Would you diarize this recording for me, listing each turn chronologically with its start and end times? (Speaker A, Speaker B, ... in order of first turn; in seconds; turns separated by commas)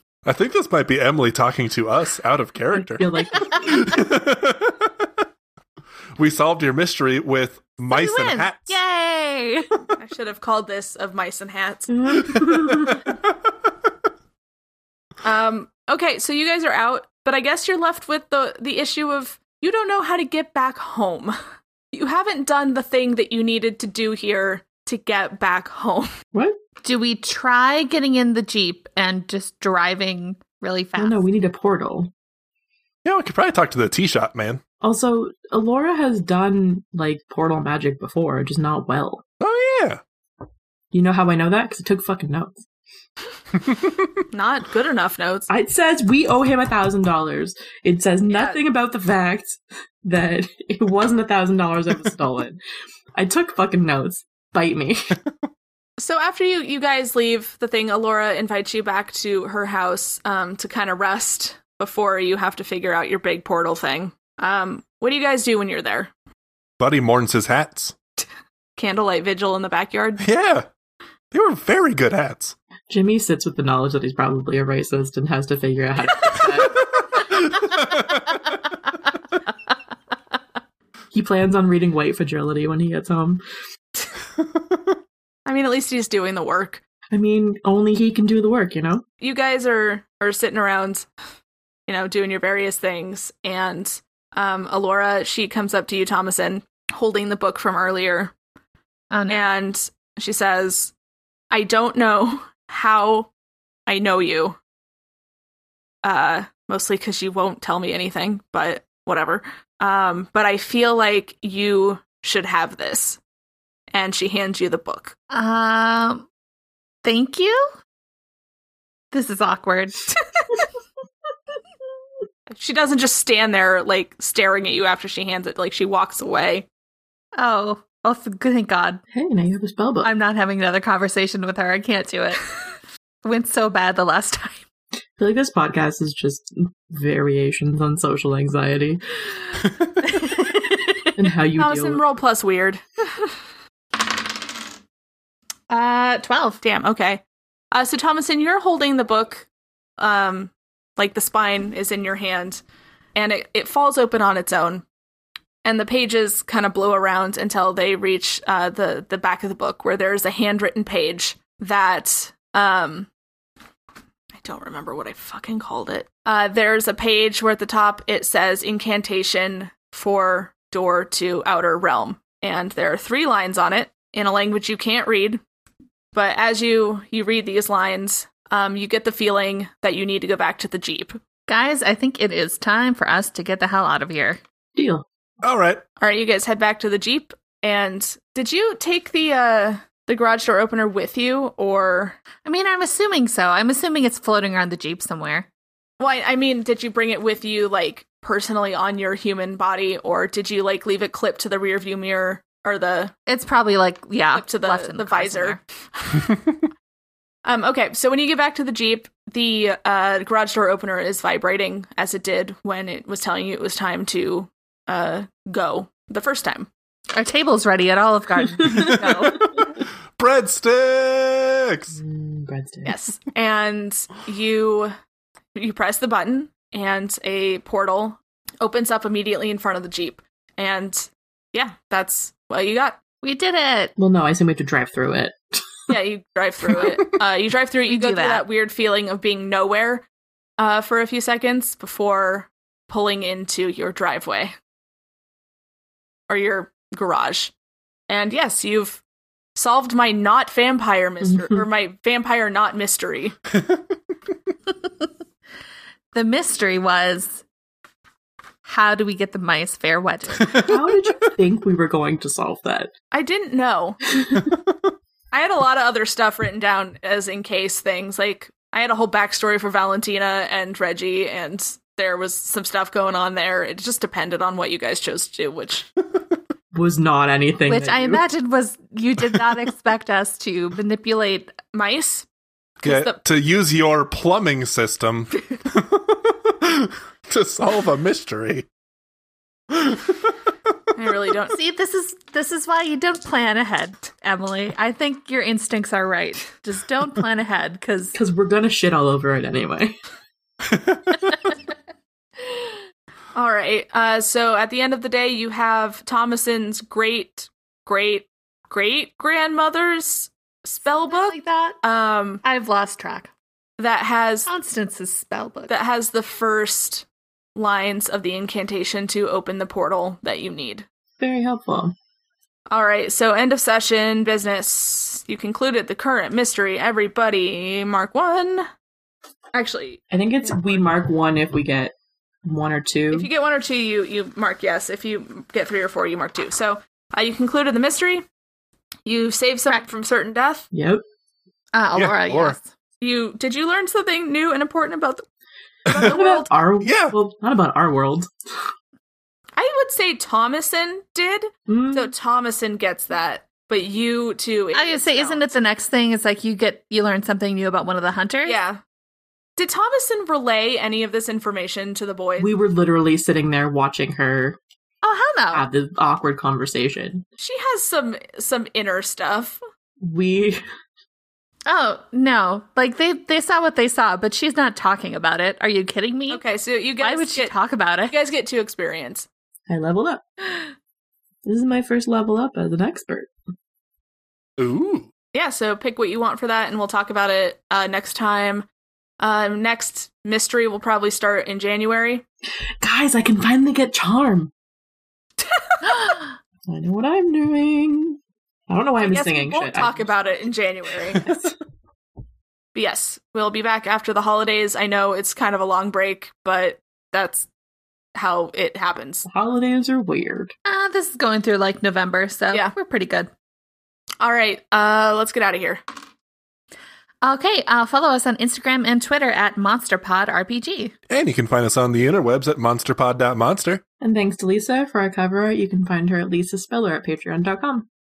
Speaker A: 0.2-5.1, Speaker B: 2.7-3.9, Speaker A: 6.2-8.8, Speaker C: 7.9-9.7, Speaker D: 10.0-11.9, Speaker B: 11.9-13.0, Speaker A: 12.3-13.1, Speaker D: 15.2-21.4, Speaker D: 21.9-26.1, Speaker B: 26.3-26.6, Speaker C: 26.8-31.2, Speaker B: 31.0-32.1, Speaker A: 33.0-34.6, Speaker B: 34.8-39.2, Speaker A: 39.4-40.0, Speaker B: 40.9-42.6, Speaker D: 44.3-45.5, Speaker B: 45.5-52.6, Speaker D: 48.3-48.6, Speaker B: 53.1-55.0, Speaker D: 56.0-66.1, Speaker A: 66.8-68.0, Speaker D: 68.8-70.2, Speaker A: 70.2-70.7, Speaker A: 71.3-72.5, Speaker B: 72.9-76.9, Speaker A: 77.1-78.4, Speaker B: 81.1-83.4, Speaker D: 85.5-86.8, Speaker B: 87.1-89.0, Speaker D: 89.2-91.1, Speaker D: 91.9-98.3, Speaker C: 99.1-99.5, Speaker D: 99.3-100.9, Speaker D: 101.5-103.3, Speaker D: 103.9-104.6, Speaker D: 106.0-113.2, Speaker D: 113.9-115.2, Speaker C: 115.3-116.3, Speaker C: 117.0-117.7, Speaker C: 119.1-120.2, Speaker D: 122.5-126.7, Speaker C: 127.4-129.0, Speaker B: 129.1-130.1, Speaker C: 130.0-132.4, Speaker C: 133.2-134.6, Speaker B: 135.2-139.0, Speaker B: 141.2-142.0, Speaker D: 141.6-143.3, Speaker C: 145.7-146.6, Speaker D: 146.6-149.5, Speaker D: 150.0-152.6, Speaker D: 153.2-154.8, Speaker D: 155.7-163.1, Speaker D: 164.4-175.4, Speaker D: 176.1-181.2, Speaker C: 181.5-184.4, Speaker B: 184.8-185.1, Speaker A: 185.4-185.8, Speaker D: 186.0-192.2, Speaker C: 192.4-195.5, Speaker D: 196.0-203.1, Speaker C: 203.3-205.6, Speaker D: 204.3-205.6, Speaker D: 207.4-216.7, Speaker C: 217.1-219.5, Speaker A: 218.7-222.0, Speaker B: 221.9-223.0, Speaker D: 222.8-224.9, Speaker D: 225.6-233.0, Speaker C: 233.2-233.9, Speaker B: 234.0-235.7, Speaker D: 235.9-240.1, Speaker C: 237.9-238.4, Speaker D: 240.6-244.5, Speaker D: 246.3-247.5, Speaker D: 248.1-249.0, Speaker D: 249.6-253.4, Speaker B: 251.2-251.7, Speaker C: 256.1-257.4, Speaker C: 258.6-260.6, Speaker A: 260.5-260.8, Speaker B: 260.6-262.9, Speaker D: 263.1-264.0, Speaker B: 264.1-264.5, Speaker D: 265.3-275.9, Speaker B: 276.7-278.2, Speaker C: 277.7-281.6, Speaker D: 281.7-282.3, Speaker D: 282.8-283.2, Speaker A: 282.8-288.7, Speaker A: 289.7-290.1, Speaker D: 291.0-291.6, Speaker C: 291.5-298.2, Speaker B: 298.1-300.0, Speaker A: 300.7-301.3, Speaker D: 303.4-312.4, Speaker C: 311.1-311.8, Speaker C: 312.4-313.3, Speaker D: 313.8-314.5, Speaker C: 314.5-315.8, Speaker D: 315.7-320.9, Speaker B: 321.2-321.9, Speaker D: 322.7-328.7, Speaker D: 329.5-330.7, Speaker B: 330.1-333.3, Speaker D: 333.1-338.2, Speaker D: 339.1-340.7, Speaker B: 340.7-341.0, Speaker C: 341.7-342.7, Speaker A: 341.9-342.6, Speaker D: 343.0-345.2, Speaker A: 345.9-346.1, Speaker D: 345.9-346.5, Speaker B: 345.9-348.3, Speaker A: 346.8-347.1, Speaker D: 349.6-355.4, Speaker B: 351.7-352.1, Speaker C: 354.7-358.6, Speaker D: 358.5-358.8, Speaker D: 359.6-362.5, Speaker B: 362.4-364.6, Speaker C: 365.0-365.7, Speaker B: 365.5-367.2, Speaker D: 367.4-369.6, Speaker B: 370.0-370.6, Speaker C: 371.7-376.4, Speaker D: 376.3-377.5, Speaker C: 377.0-378.2, Speaker D: 378.1-379.3, Speaker B: 379.7-380.2, Speaker B: 381.4-383.3, Speaker A: 384.6-385.1, Speaker D: 385.3-388.7, Speaker D: 389.2-392.2, Speaker B: 392.8-394.5, Speaker D: 395.5-396.0, Speaker B: 396.7-400.1, Speaker D: 399.0-401.2, Speaker B: 401.2-401.5, Speaker D: 402.8-407.5, Speaker D: 408.1-409.3, Speaker B: 409.3-410.5, Speaker C: 410.7-413.3, Speaker D: 414.2-415.8, Speaker C: 417.2-420.9, Speaker A: 421.1-423.8, Speaker B: 424.0-427.9